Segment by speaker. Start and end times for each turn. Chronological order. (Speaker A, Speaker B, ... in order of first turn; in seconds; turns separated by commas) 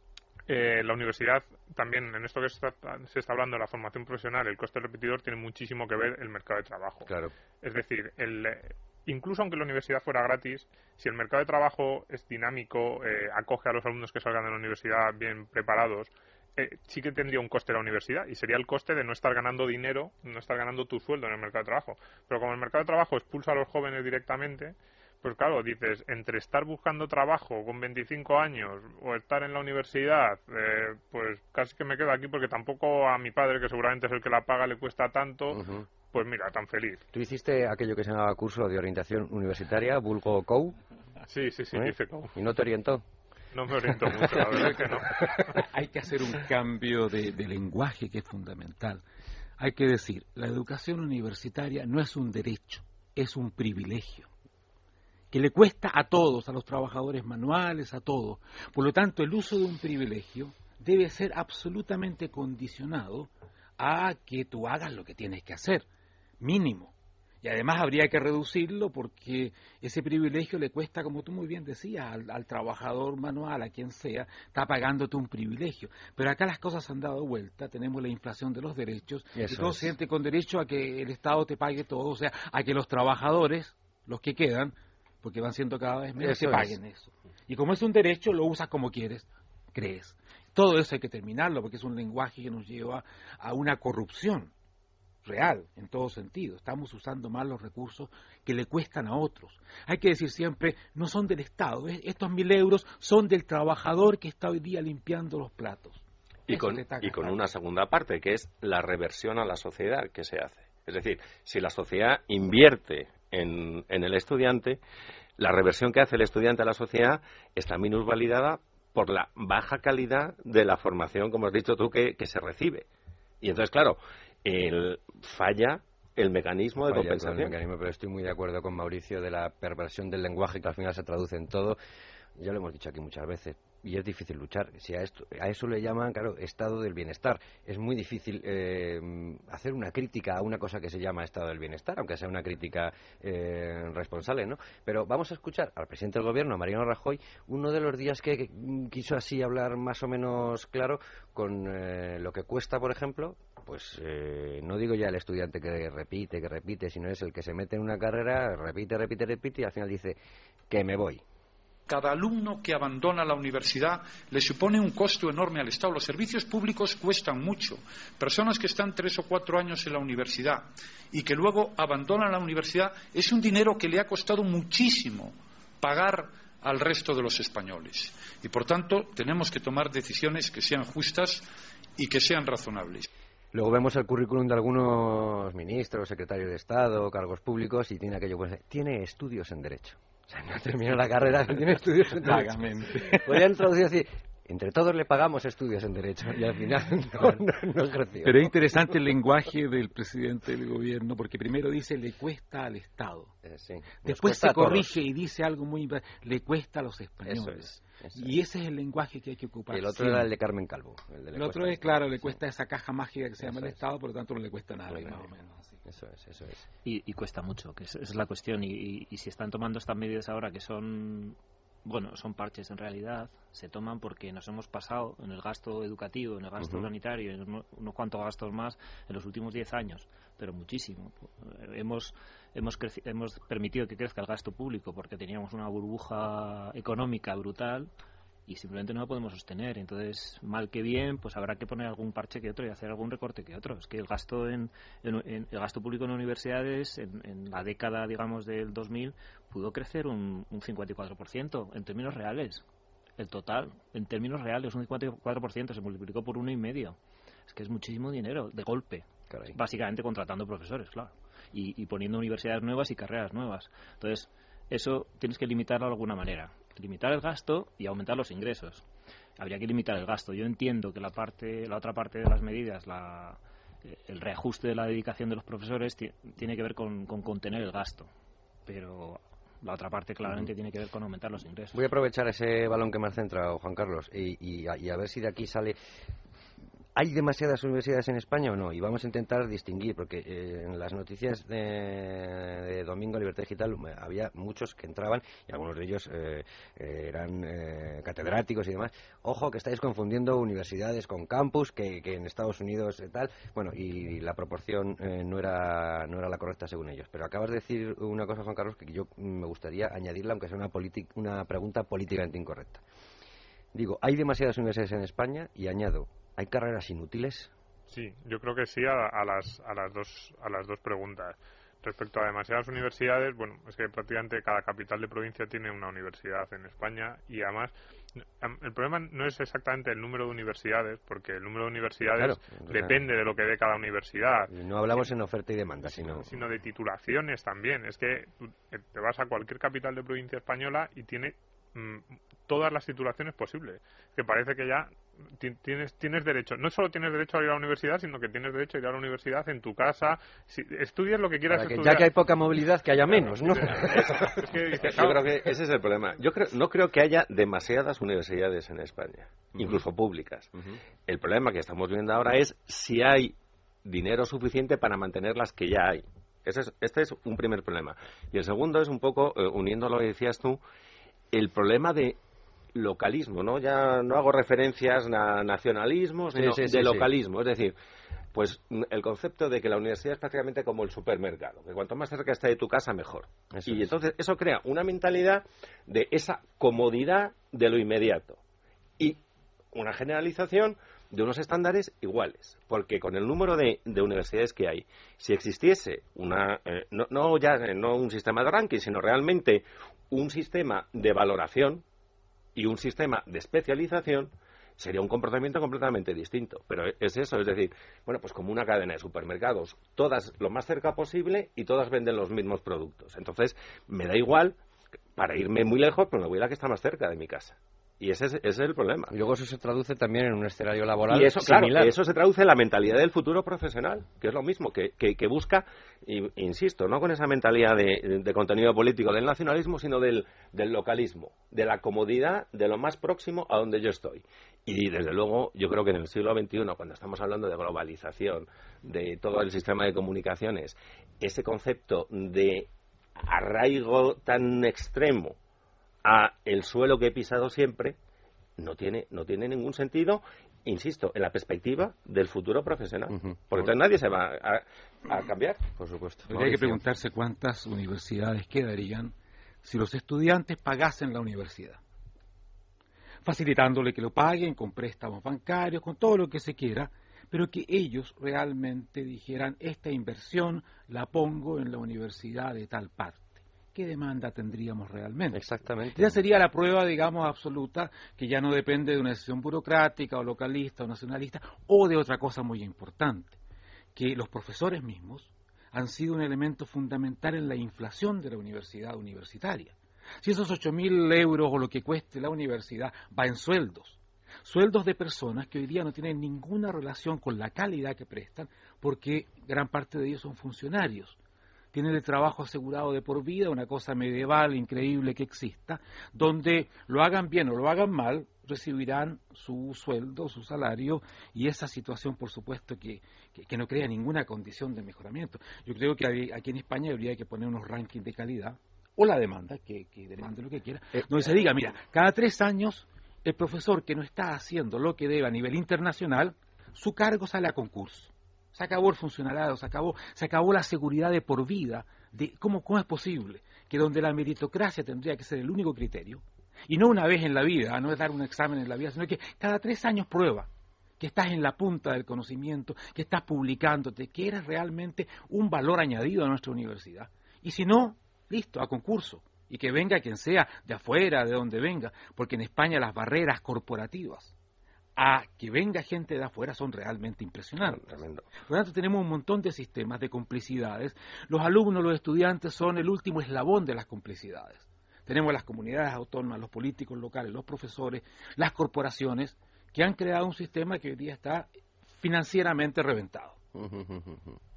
Speaker A: 0.5-7.1, Speaker B: 7.0-7.3, Speaker A: 7.6-37.0, Speaker B: 35.5-35.9, Speaker B: 37.1-40.8, Speaker A: 41.3-42.3, Speaker B: 41.7-43.0, Speaker A: 43.5-45.2, Speaker B: 44.1-45.3, Speaker C: 45.5-49.0, Speaker C: 49.6-54.3, Speaker C: 55.3-65.9, Speaker C: 66.4-94.5, Speaker B: 79.4-79.9, Speaker B: 86.2-86.8, Speaker C: 95.2-107.4, Speaker D: 106.5-114.8, Speaker D: 115.4-122.9, Speaker D: 123.4-127.5, Speaker B: 126.9-131.8, Speaker B: 132.4-160.2, Speaker B: 160.7-161.2, Speaker E: 161.9-183.1, Speaker B: 183.5-198.5, Speaker C: 192.2-193.4, Speaker C: 198.2-203.3, Speaker B: 203.4-205.0, Speaker C: 204.1-210.3, Speaker B: 207.2-208.2, Speaker B: 209.7-212.4, Speaker C: 211.3-215.8, Speaker B: 213.4-213.8, Speaker B: 214.9-215.2, Speaker B: 215.9-216.7, Speaker F: 216.8-237.9, Speaker B: 226.6-226.9, Speaker F: 238.5-252.6, Speaker F: 253.2-257.0, Speaker F: 257.5-268.9, Speaker B: 259.3-259.5, Speaker F: 269.4-278.1, Speaker F: 278.7-281.9, Speaker B: 281.7-285.8, Speaker B: 286.9-312.8, Speaker B: 313.7-317.5, Speaker A: 317.9-327.7, Speaker A: 328.4-334.5, Speaker B: 332.1-333.0, Speaker B: 334.5-336.4, Speaker A: 336.2-352.1, Speaker B: 351.5-354.8, Speaker A: 353.7-355.3, Speaker D: 353.7-360.5, Speaker D: 361.1-370.6, Speaker D: 371.3-372.2, Speaker D: 372.7-377.7, Speaker B: 376.4-377.1, Speaker D: 378.3-388.4, Speaker B: 383.5-383.9, Speaker D: 389.7-401.8, Speaker D: 402.5-414.6, Speaker D: 415.1-419.1, Speaker B: 419.1-421.9, Speaker D: 421.1-445.4, Speaker D: 446.0-447.9, Speaker D: 448.6-455.6, Speaker B: 453.1-453.7, Speaker B: 455.8-456.8, Speaker C: 456.3-461.8, Speaker C: 463.2-475.4, Speaker B: 475.3-476.2, Speaker C: 475.9-483.4, Speaker C: 483.9-501.2, Speaker C: 501.7-554.3, Speaker B: 521.0-521.2, Speaker C: 555.0-557.9, Speaker D: 557.8-558.2, Speaker C: 558.4-573.4, Speaker B: 573.5-574.4